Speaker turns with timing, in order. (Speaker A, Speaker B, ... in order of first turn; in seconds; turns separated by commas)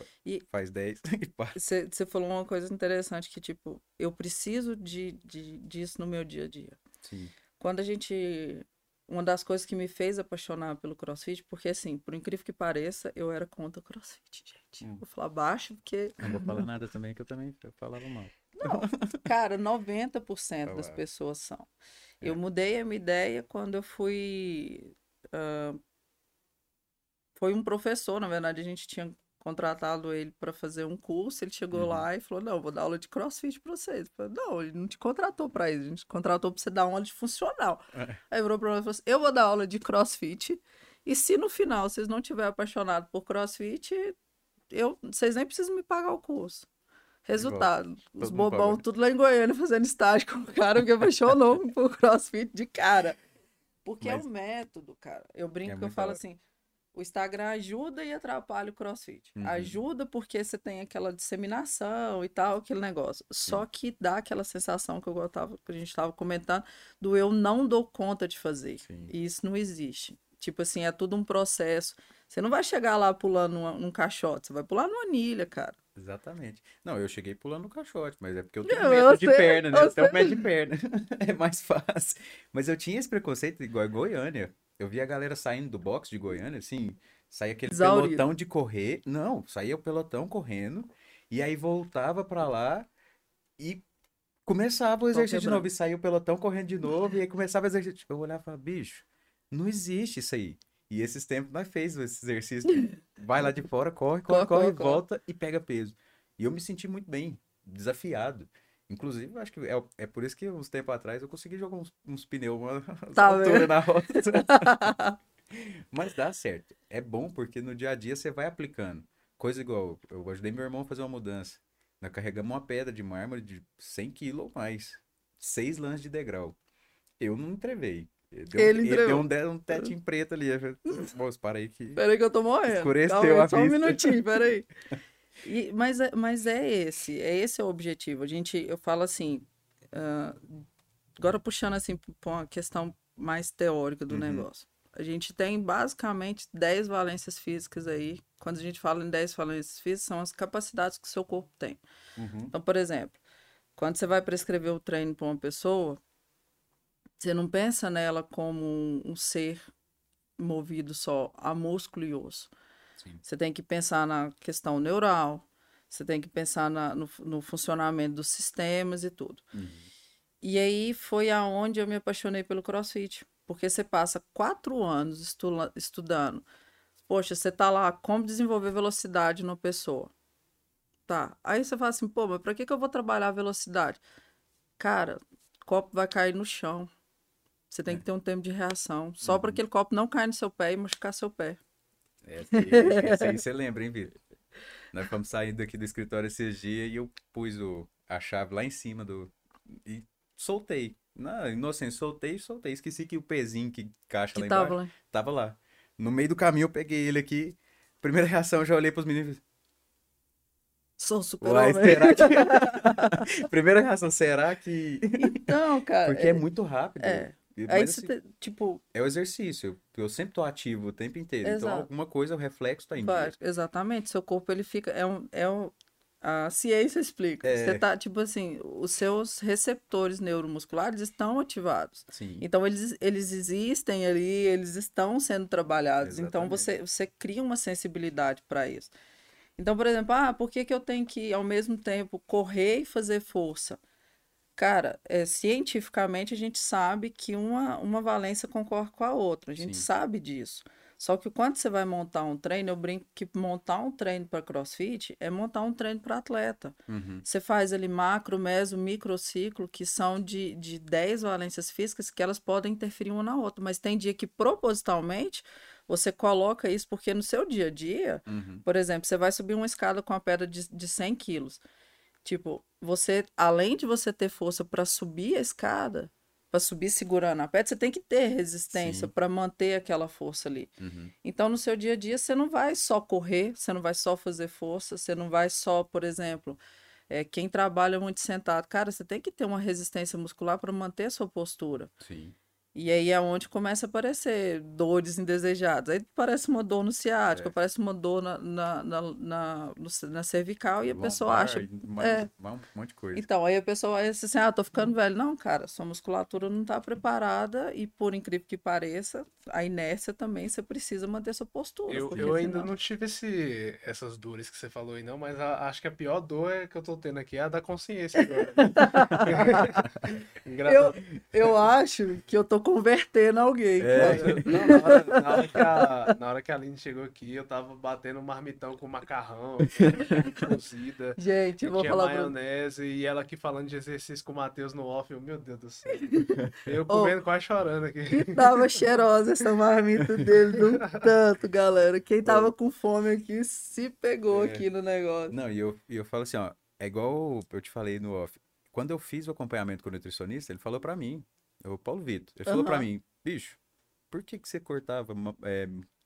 Speaker A: 0.5-1.6, Speaker B: 1.5-6.8, Speaker A: 7.0-7.3, Speaker B: 7.6-16.6, Speaker A: 16.2-19.2, Speaker B: 18.5-21.7, Speaker A: 20.6-21.0, Speaker B: 22.2-25.8, Speaker B: 27.4-44.1, Speaker A: 31.7-32.0, Speaker A: 37.9-38.2, Speaker B: 44.7-46.7, Speaker B: 47.2-53.2, Speaker A: 47.4-48.8, Speaker B: 53.8-56.4, Speaker A: 55.6-56.2, Speaker B: 56.9-75.8, Speaker A: 59.4-59.8, Speaker A: 68.8-69.1, Speaker A: 76.0-92.9, Speaker B: 78.7-80.5, Speaker B: 87.7-88.2, Speaker A: 93.6-93.8, Speaker A: 94.5-114.9, Speaker B: 95.1-95.7, Speaker B: 104.3-105.0, Speaker B: 113.1-115.2, Speaker A: 115.5-126.5, Speaker A: 127.2-132.0, Speaker B: 128.5-129.9, Speaker B: 131.9-134.7, Speaker A: 132.7-134.2, Speaker B: 135.4-140.6, Speaker B: 141.2-151.8, Speaker A: 144.1-144.5, Speaker A: 152.2-152.5, Speaker B: 152.5-153.2, Speaker B: 153.8-156.0, Speaker B: 157.2-159.7, Speaker B: 160.4-162.5, Speaker B: 163.2-169.4, Speaker A: 169.5-169.9, Speaker B: 170.4-176.4, Speaker B: 177.1-180.1, Speaker B: 181.1-184.0, Speaker B: 184.8-186.9, Speaker B: 187.7-191.6, Speaker A: 189.2-189.6, Speaker A: 192.2-194.2, Speaker B: 192.5-193.4, Speaker A: 194.9-209.4, Speaker B: 204.3-204.9, Speaker B: 211.0-213.4, Speaker A: 211.4-215.5, Speaker B: 215.2-216.4, Speaker A: 216.0-218.1, Speaker B: 217.0-218.8, Speaker A: 218.9-223.3, Speaker B: 221.4-221.9, Speaker B: 222.9-238.9, Speaker A: 227.4-227.8, Speaker A: 232.1-232.4, Speaker A: 236.0-236.7, Speaker B: 239.6-243.8, Speaker B: 244.6-271.6, Speaker A: 249.6-249.9, Speaker A: 256.9-257.2, Speaker A: 268.3-268.6, Speaker B: 272.2-280.7, Speaker A: 278.7-279.1, Speaker A: 280.8-281.1, Speaker B: 281.2-291.9, Speaker A: 292.0-292.4, Speaker B: 292.7-302.3, Speaker A: 300.9-303.2, Speaker B: 303.1-312.7, Speaker C: 311.9-321.2, Speaker A: 312.1-312.4, Speaker B: 318.1-319.7, Speaker B: 320.6-326.1, Speaker A: 323.8-324.7, Speaker C: 323.9-336.1, Speaker A: 329.8-330.4, Speaker B: 331.2-332.3, Speaker B: 335.9-337.2, Speaker C: 336.6-338.8, Speaker B: 338.1-345.3, Speaker C: 340.6-341.0, Speaker A: 342.2-342.5, Speaker A: 344.3-344.6, Speaker A: 345.3-353.6, Speaker B: 352.4-352.9, Speaker A: 354.1-355.9